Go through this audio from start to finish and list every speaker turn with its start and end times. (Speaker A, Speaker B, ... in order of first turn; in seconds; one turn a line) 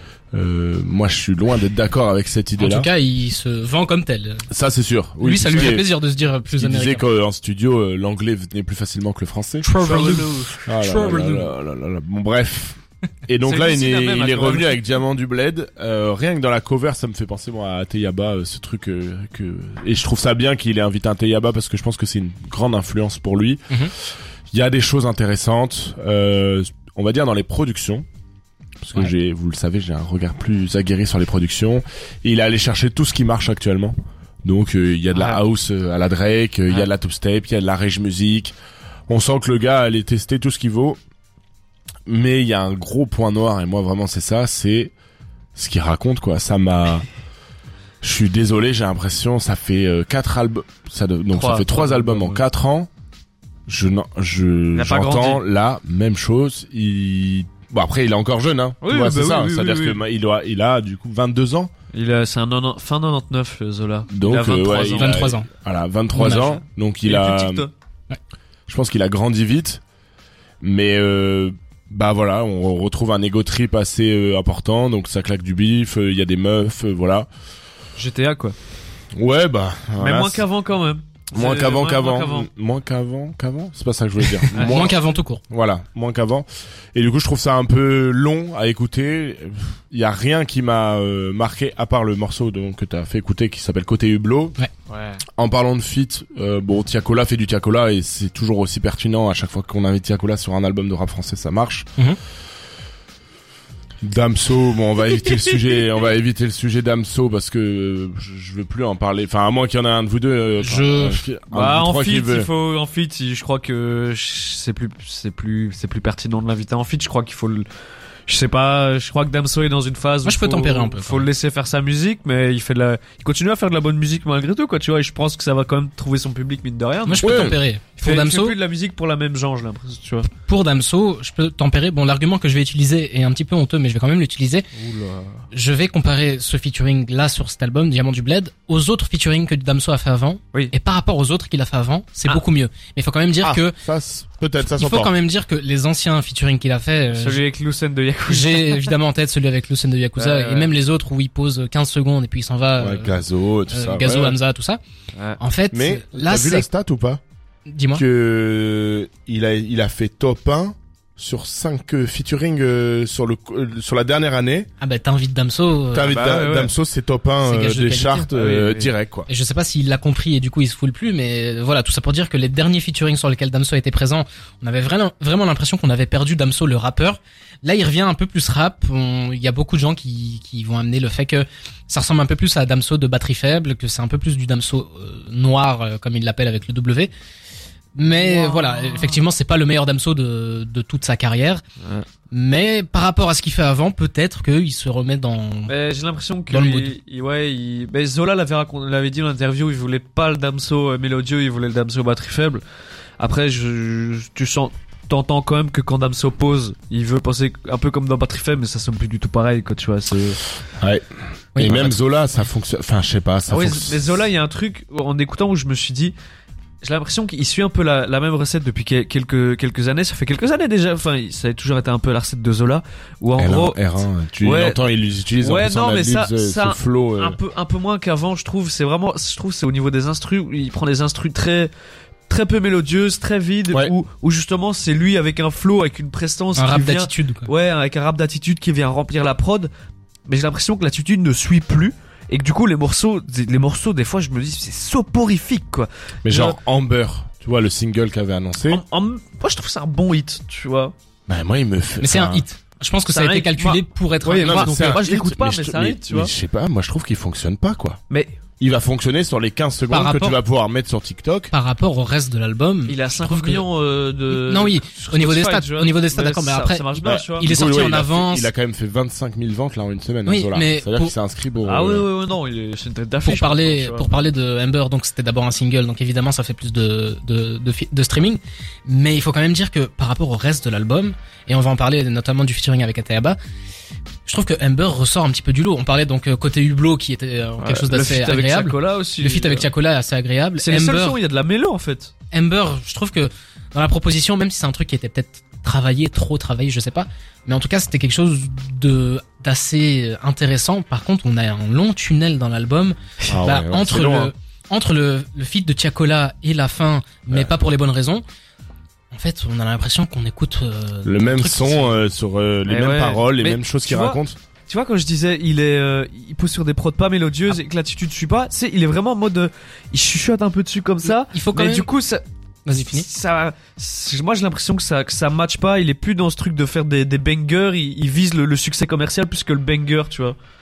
Speaker A: 0.3-2.9
Speaker B: 2.6-4.5
Speaker A: 4.5-5.9
Speaker B: 5.2-7.0
Speaker A: 6.5-23.9
Speaker B: 9.6-11.4
Speaker C: 9.8-10.5
Speaker C: 13.4-14.8
Speaker A: 24.5-28.0
Speaker A: 28.8-38.5
Speaker C: 35.1-35.4
Speaker A: 39.1-41.0
Speaker A: 42.0-44.9
Speaker A: 45.5-47.1
Speaker A: 48.0-52.9
Speaker C: 51.3-52.4
Speaker A: 53.7-61.7
Speaker C: 54.7-55.4
Speaker C: 58.8-60.0
Speaker C: 61.9-65.3
Speaker A: 64.1-67.7
Speaker B: 65.0-65.5
Speaker B: 66.1-66.5
Speaker C: 67.0-67.7
Speaker A: 68.7-69.8
Speaker A: 70.6-77.3
Speaker C: 78.0-78.5
Speaker A: 79.1-80.4
Speaker C: 80.0-82.5
Speaker A: 81.3-94.6
Speaker B: 84.5-85.4
Speaker C: 84.5-84.8
Speaker A: 95.3-101.9
Speaker A: 104.0-112.5
Speaker B: 110.6-111.2
Speaker C: 111.5-117.6
Speaker C: 118.3-130.3
Speaker B: 120.2-121.3
Speaker B: 127.0-128.6
Speaker A: 127.2-127.6
Speaker B: 130.3-134.6
Speaker C: 134.7-135.4
Speaker B: 135.5-143.7
Speaker A: 143.4-145.1
Speaker B: 144.7-147.4
Speaker C: 147.1-148.9
Speaker B: 148.3-153.2
Speaker C: 150.2-150.7
Speaker A: 152.8-154.4
Speaker B: 153.7-154.8
Speaker B: 155.4-156.7
Speaker A: 155.7-157.2
Speaker B: 157.7-158.0
Speaker A: 157.9-164.7
Speaker B: 164.8-166.2
Speaker A: 165.9-169.3
Speaker C: 166.1-166.7
Speaker B: 167.4-168.3
Speaker C: 168.3-168.9
Speaker B: 169.3-187.1
Speaker B: 187.9-191.6
Speaker C: 188.2-189.2
Speaker B: 192.3-195.7
Speaker C: 195.7-202.6
Speaker B: 196.5-196.9
Speaker C: 203.2-210.4
Speaker A: 210.8-214.1
Speaker B: 211.5-211.8
Speaker C: 213.5-216.1
Speaker C: 216.8-223.9
Speaker A: 223.4-227.4
Speaker C: 224.4-224.8
Speaker C: 225.4-231.7
Speaker C: 232.3-239.7
Speaker B: 236.6-237.5
Speaker C: 240.3-246.6
Speaker A: 246.2-248.8
Speaker C: 248.7-250.9
Speaker A: 251.3-252.4
Speaker B: 252.0-254.9
Speaker C: 253.1-256.3
Speaker A: 254.4-258.0
Speaker C: 258.1-258.3
Speaker A: 258.6-261.5
Speaker B: 259.9-260.4
Speaker B: 261.5-263.6
Speaker C: 262.9-267.5
Speaker B: 264.3-268.5
Speaker A: 267.0-272.1
Speaker B: 270.3-271.1
Speaker C: 271.6-274.1
Speaker B: 273.2-283.4
Speaker B: 284.2-291.2
Speaker C: 287.6-289.7
Speaker C: 290.6-292.1
Speaker B: 292.3-308.2
Speaker A: 303.3-304.3
Speaker B: 309.1-312.0
Speaker A: 311.0-314.4
Speaker C: 312.7-330.4
Speaker B: 321.3-321.9
Speaker B: 322.6-323.0